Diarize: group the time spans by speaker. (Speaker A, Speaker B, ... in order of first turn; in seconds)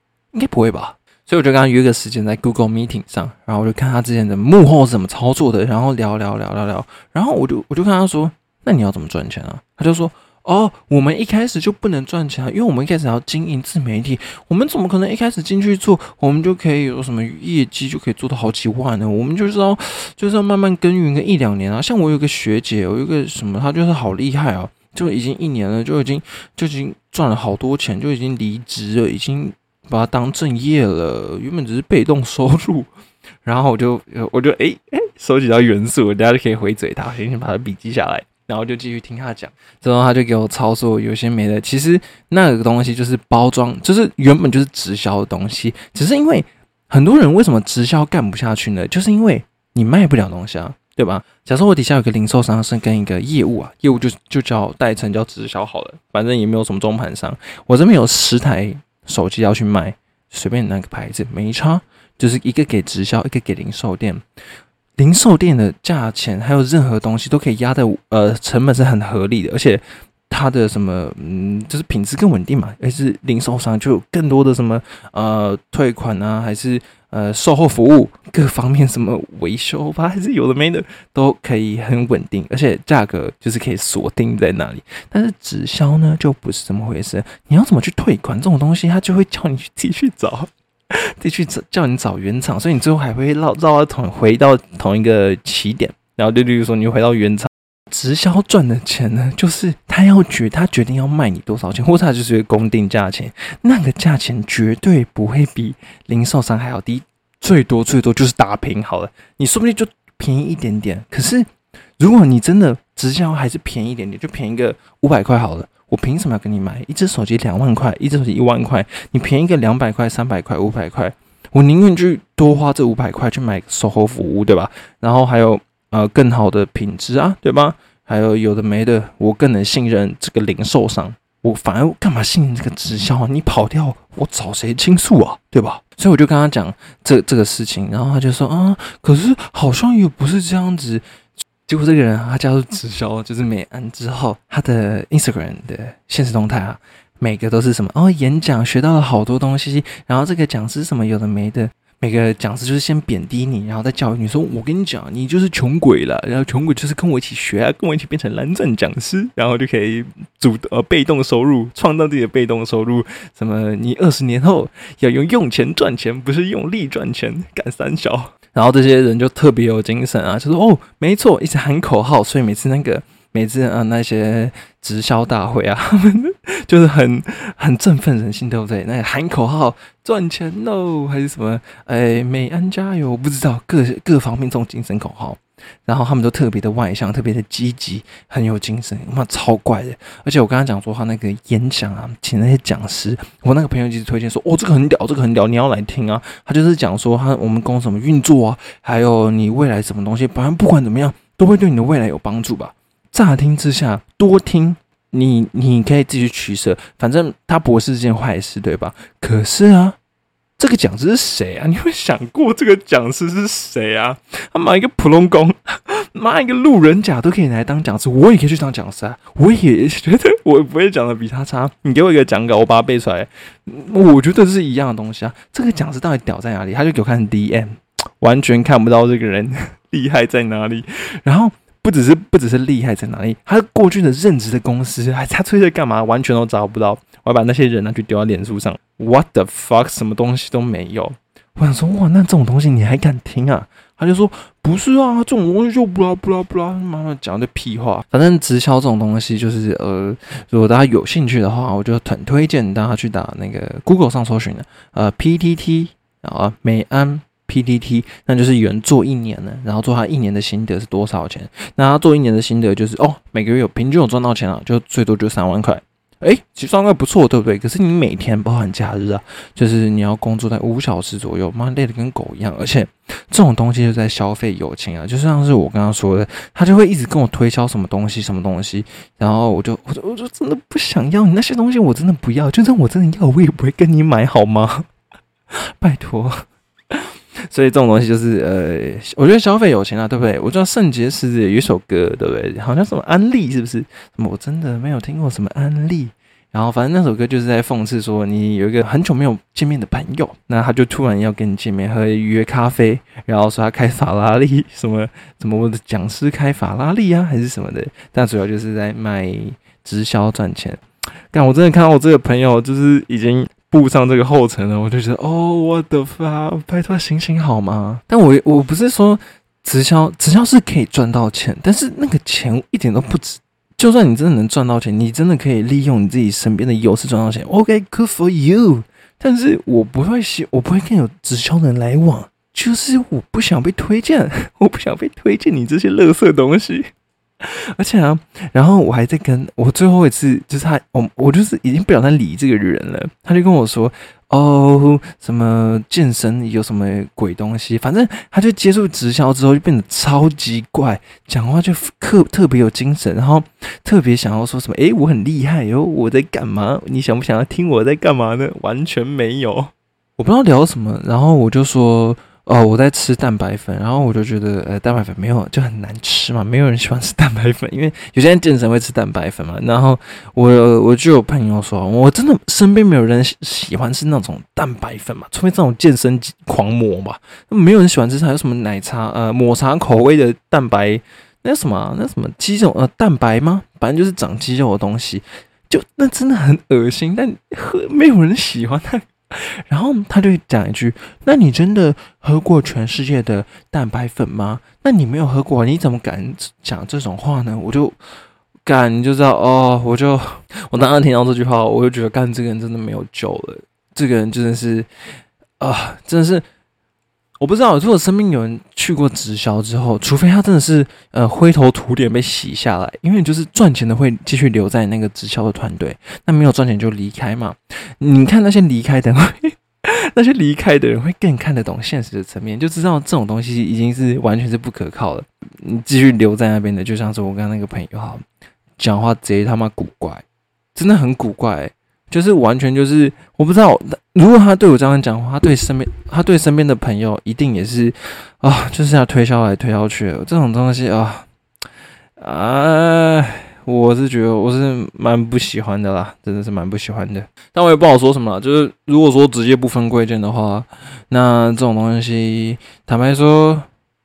Speaker A: 0.3-32.9, 33.4-64.2, 65.0-111.5, 112.0-141.0, 141.7-210.0, 210.6-284.8, 285.8-336.9, 337.4-397.9, 398.6-404.9, 405.6-406.4, 407.4-428.2, 428.8-441.3, 442.2-453.7